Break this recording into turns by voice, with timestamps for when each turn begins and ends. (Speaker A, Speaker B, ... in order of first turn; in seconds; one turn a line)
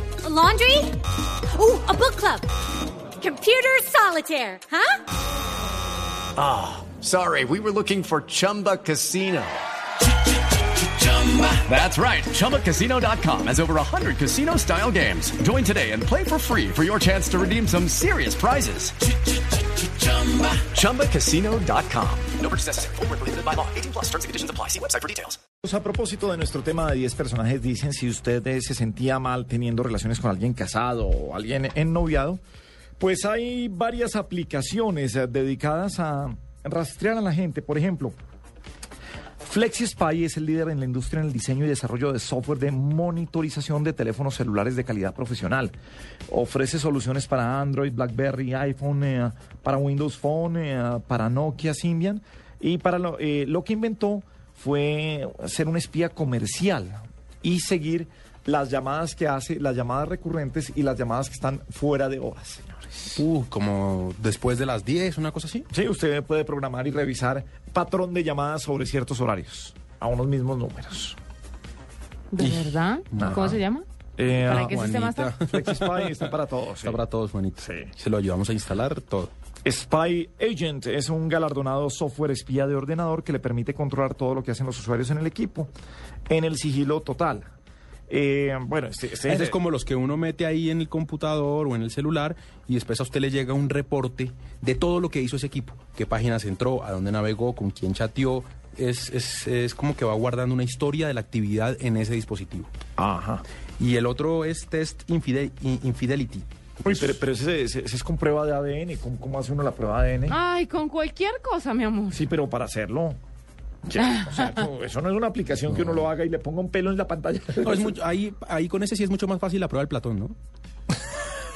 Speaker A: 0.2-1.0
Speaker A: 1.5-2.5
Speaker A: 3.2-5.0
Speaker B: 6.4-9.6
Speaker B: 10.8-19.0
Speaker B: 19.8-25.4
Speaker C: 25.6-32.4
Speaker C: 33.0-38.2
Speaker C: 39.4-45.8
Speaker C: 46.3-63.2
Speaker D: 63.1-65.7
Speaker C: 65.7-71.2
Speaker E: 72.3-73.8
Speaker D: 72.4-73.6
Speaker C: 73.2-73.6
Speaker C: 74.2-77.0
Speaker D: 74.4-79.3
Speaker E: 74.5-75.3
Speaker C: 77.6-77.9
Speaker C: 79.7-85.7
Speaker C: 86.3-87.5
Speaker C: 88.1-89.6
Speaker D: 89.2-102.7
Speaker C: 103.0-103.4
Speaker D: 103.8-107.2
Speaker C: 106.8-110.4
Speaker E: 110.3-112.2
Speaker C: 112.1-113.2
Speaker C: 113.8-118.0
Speaker E: 114.1-114.4
Speaker D: 115.7-116.1
Speaker D: 117.6-120.4